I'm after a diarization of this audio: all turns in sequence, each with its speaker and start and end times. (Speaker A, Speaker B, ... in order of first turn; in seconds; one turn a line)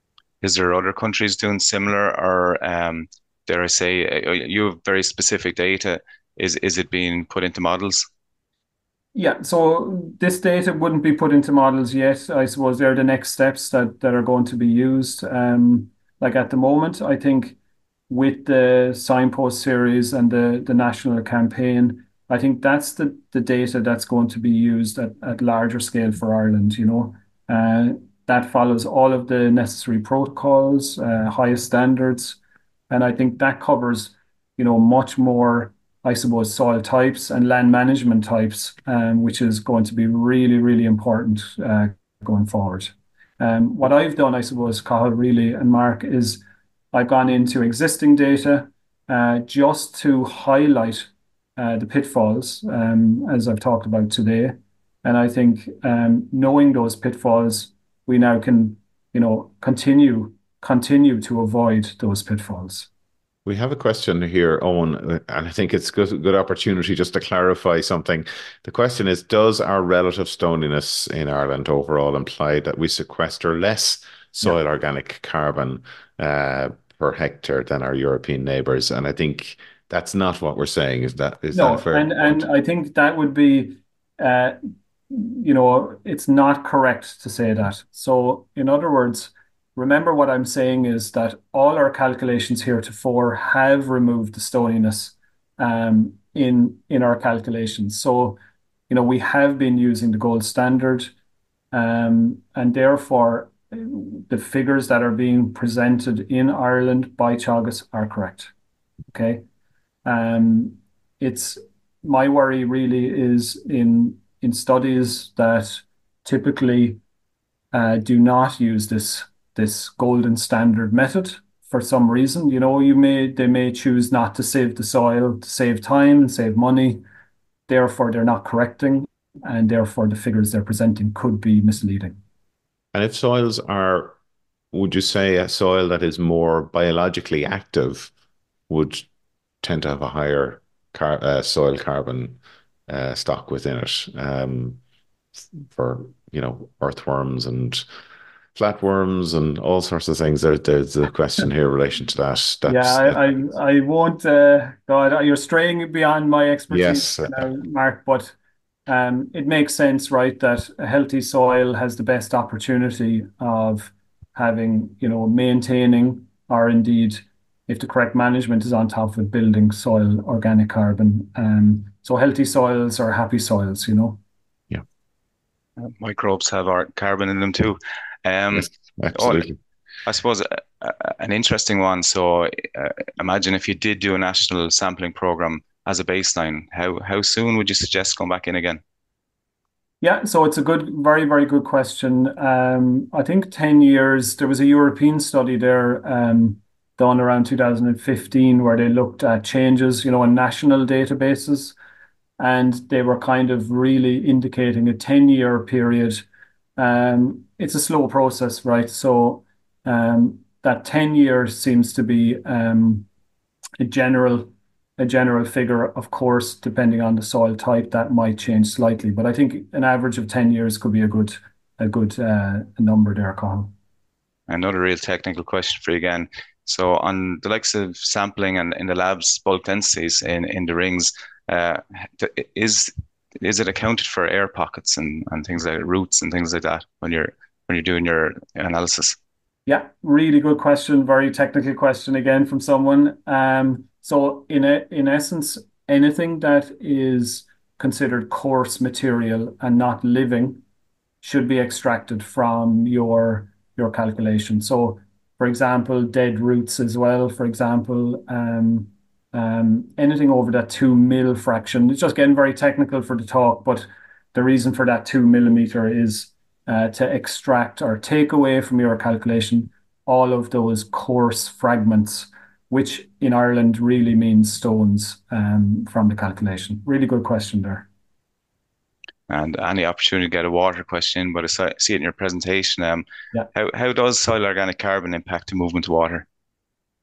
Speaker A: 0.4-8.1
Speaker B: 9.1-17.6
Speaker B: 18.1-32.4
Speaker B: 32.9-46.4
Speaker B: 46.9-62.9
Speaker C: 63.5-82.5
Speaker B: 81.5-101.1
Speaker B: 101.7-108.5
Speaker B: 109.1-109.4
Speaker B: 110.0-117.0
Speaker B: 117.7-127.0
Speaker B: 127.7-132.2
Speaker C: 132.9-134.1
Speaker C: 134.7-138.1
Speaker C: 138.7-139.1
Speaker C: 139.6-142.4
Speaker C: 142.9-144.8
Speaker C: 145.7-147.8
Speaker C: 148.6-153.2
Speaker B: 152.7-158.3
Speaker C: 156.7-157.5
Speaker B: 158.9-174.2
Speaker A: 175.8-179.5
Speaker C: 178.6-179.6
Speaker A: 180.1-188.8
Speaker B: 190.0-201.8
Speaker B: 202.4-206.2
Speaker B: 206.8-213.1
Speaker B: 213.8-223.7
Speaker A: 224.5-239.2
Speaker B: 239.7-250.6
Speaker B: 251.2-277.9
Speaker A: 279.3-286.3